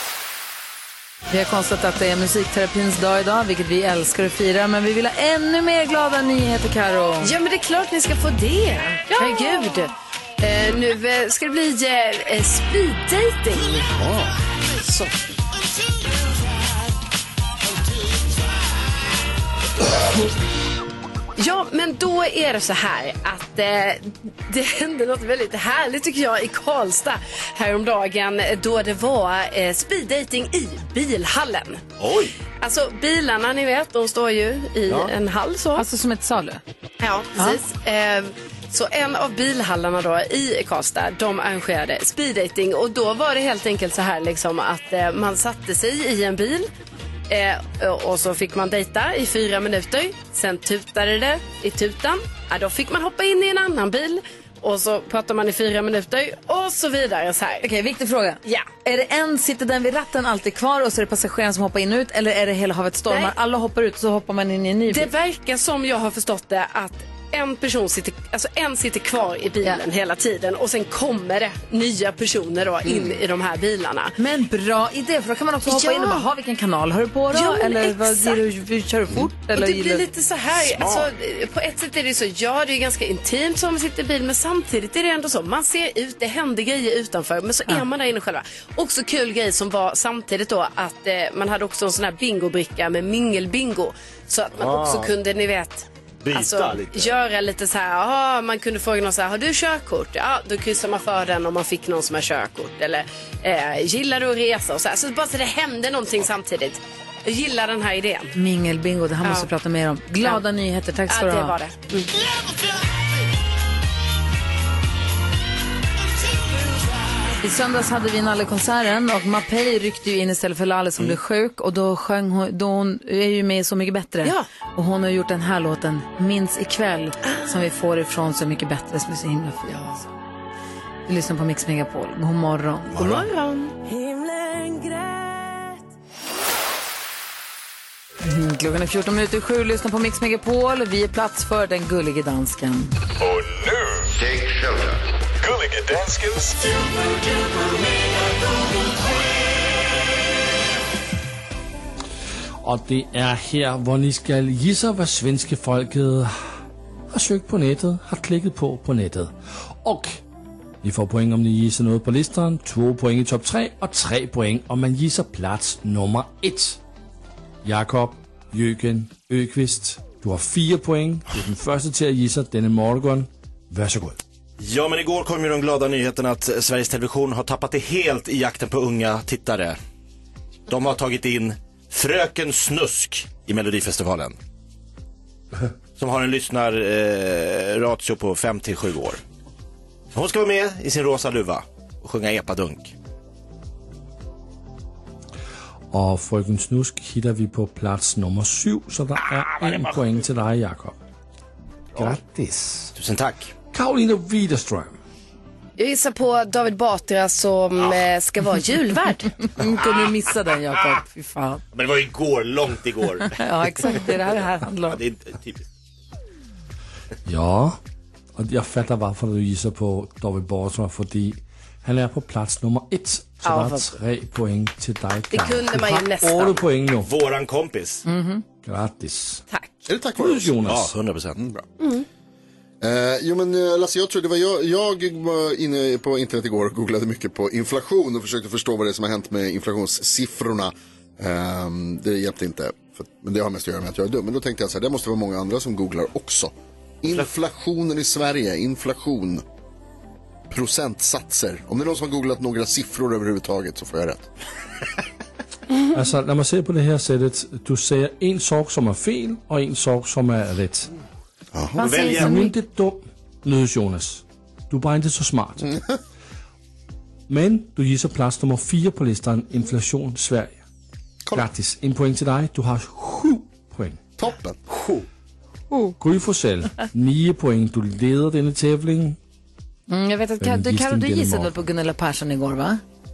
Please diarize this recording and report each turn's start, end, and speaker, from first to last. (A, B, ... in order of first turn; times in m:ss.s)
0:01.3-0:07.3 A
0:07.2-0:13.8 B
0:13.5-0:15.1 C
0:21.4-0:31.8 B
0:32.0-0:32.3 D
0:32.5-0:35.8 B
0:34.9-0:35.1 D
0:35.8-0:36.6 A
0:37.0-0:46.7 B
0:47.3-0:57.7 B
0:57.6-1:05.1 A
1:04.9-1:14.2 B
1:14.2-1:20.0 A
1:15.6-1:16.2 B
1:17.3-1:18.4 B
1:19.5-1:48.3 B
1:20.6-1:21.1 D
1:34.5-1:35.1 D
1:36.2-1:37.1 D
1:48.4-1:51.5 A
1:51.1-1:52.2 B
1:57.4-2:10.1 A
2:11.1-2:13.0 A
2:12.9-2:13.3 D
2:13.0-2:13.7 B
2:13.8-2:15.8 E
2:18.2-2:22.9 A
2:23.2-2:24.8 F
2:25.4-2:26.6 F
2:32.6-2:40.2 G
2:40.8-2:46.8 G
2:47.6-2:54.2 G
2:54.6-2:59.8 D
3:00.7-3:04.4 D
3:06.0-3:09.2 D
3:10.1-3:12.9 D
3:15.9-3:21.0 G
3:22.0-3:22.9 G
3:23.0-3:23.5 D
3:23.7-3:25.0 G
3:25.8-3:29.4 B
3:29.4-3:31.6 A
3:31.7-3:33.4 D
3:33.2-3:35.0 A
3:34.8-3:35.6 D
3:37.3-3:37.8 G
3:38.4-3:47.1 G
3:43.4-3:43.9 B
3:45.3-3:46.6 B
3:47.0-3:48.0 D
3:48.0-3:48.4 A
3:48.6-3:49.4 G
3:49.9-3:50.7 C
3:50.2-3:50.9 G
3:50.6-3:51.4 D
3:51.4-3:51.6 C
3:51.8-3:52.0 B
3:52.8-4:09.4 C
4:10.5-4:14.3 C
4:15.9-4:20.9 G
4:21.5-4:21.9 C
4:21.8-4:22.5 A
4:21.8-4:22.4 D
4:22.1-4:25.8 G
4:25.6-4:26.0 C
4:27.3-4:30.6 G
4:31.3-4:34.0 G
4:34.2-4:35.0 C
4:36.0-4:39.2 G
4:39.9-4:42.8 A
4:40.4-4:41.7 G